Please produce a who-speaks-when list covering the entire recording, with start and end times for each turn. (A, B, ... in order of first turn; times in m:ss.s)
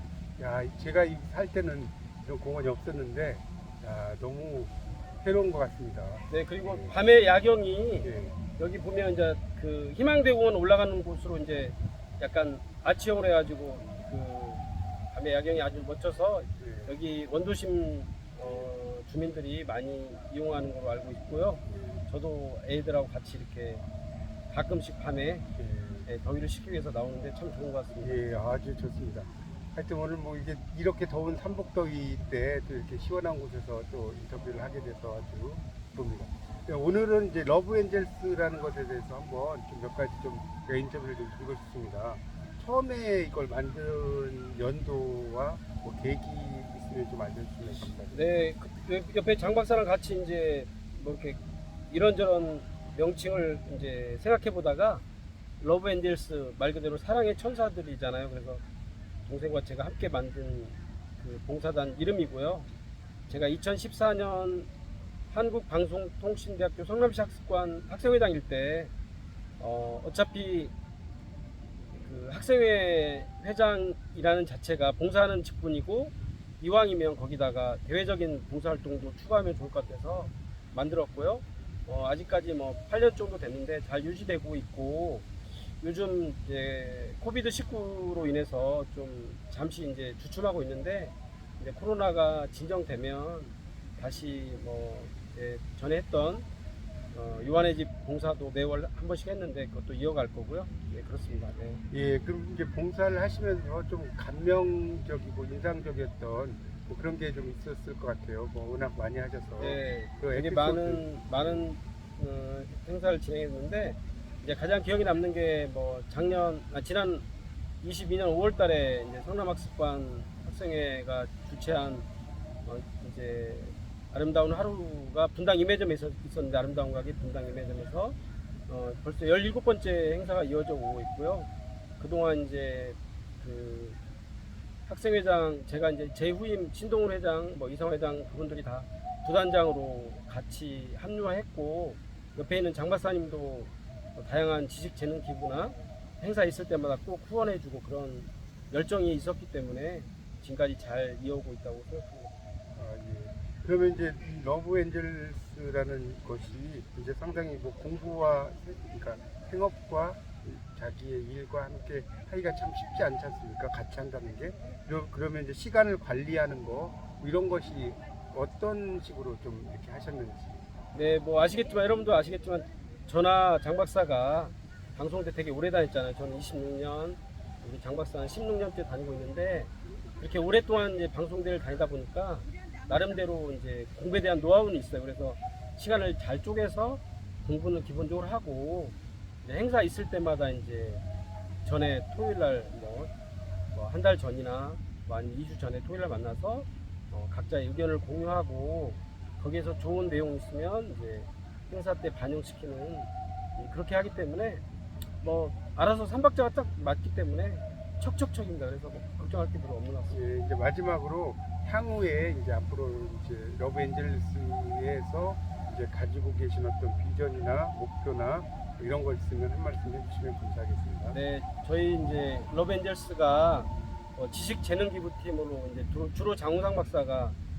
0:00.4-0:07.0 A
0:06.3-0:23.8 B
0:08.0-0:08.4 A
0:16.6-0:16.9 A
0:18.4-0:18.7 A
0:21.6-0:22.0 A
0:24.5-0:25.4 B
0:25.5-0:26.1 A
0:26.0-0:28.2 B
0:28.0-0:48.4 A
0:48.1-0:55.0 B
0:55.6-0:58.6 B
0:59.2-1:02.7 B
1:03.3-1:04.7 B
1:05.3-1:08.9 B
1:09.6-1:10.7 B
1:11.9-1:25.3 B
1:25.8-1:36.4 B
1:37.1-1:41.8 B
1:41.9-1:51.7 A
1:49.6-1:57.2 B
1:57.8-2:02.0 B
2:02.6-2:08.2 B
2:08.7-2:14.0 B
2:14.8-2:32.3 B
2:32.7-2:50.6 A
2:50.9-3:11.0 B
3:11.6-3:13.1 B
3:13.7-3:24.6 B
3:25.2-3:30.2 B
3:30.1-3:41.2 A
3:41.1-3:47.4 B